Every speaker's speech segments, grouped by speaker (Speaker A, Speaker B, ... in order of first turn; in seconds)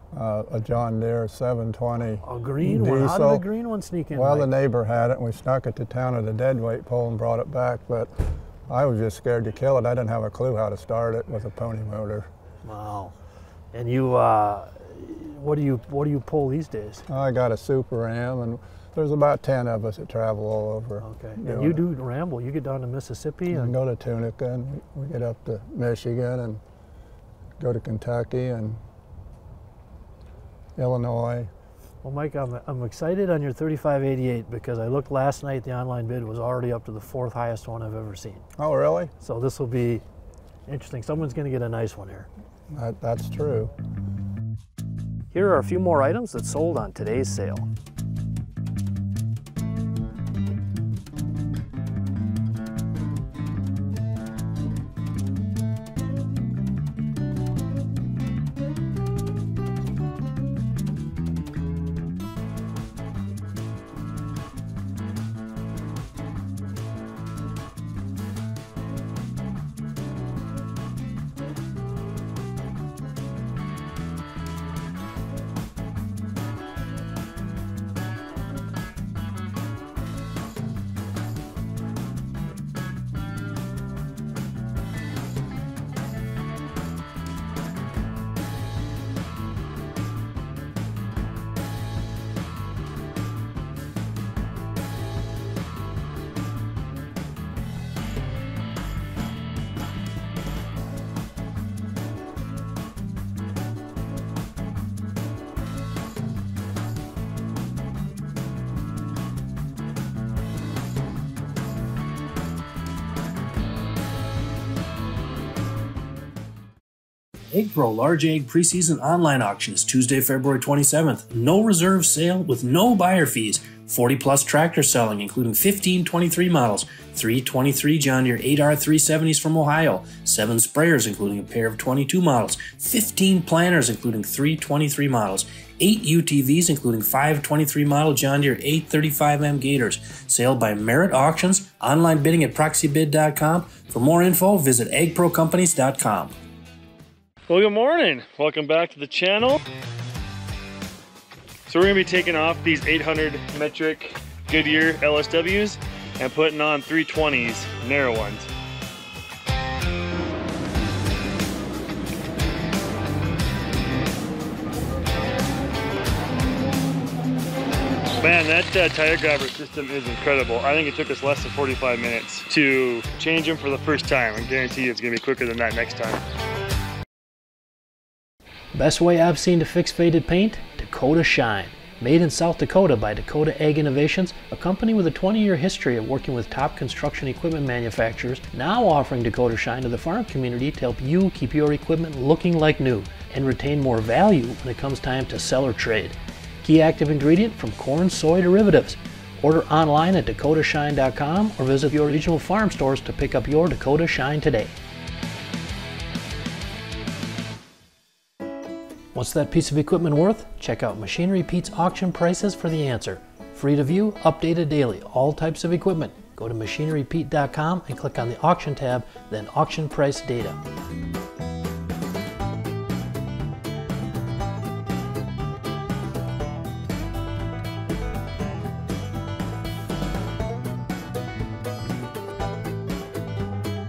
Speaker A: 0.1-3.5, 4.1-12.3, 17.1-21.9, 23.5-26.6, 27.6-28.8, 30.8-31.5, 38.6-39.1, 42.7-43.7
Speaker B: 2.2-4.5, 12.6-13.1, 13.7-17.1, 21.0-23.8, 32.0-38.4, 39.2-40.0, 40.7-42.3, 45.3-47.7, 178.7-204.8, 209.1-220.6
Speaker C: 117.5-146.3
Speaker D: 147.5-149.6, 151.7-158.5, 168.2-176.2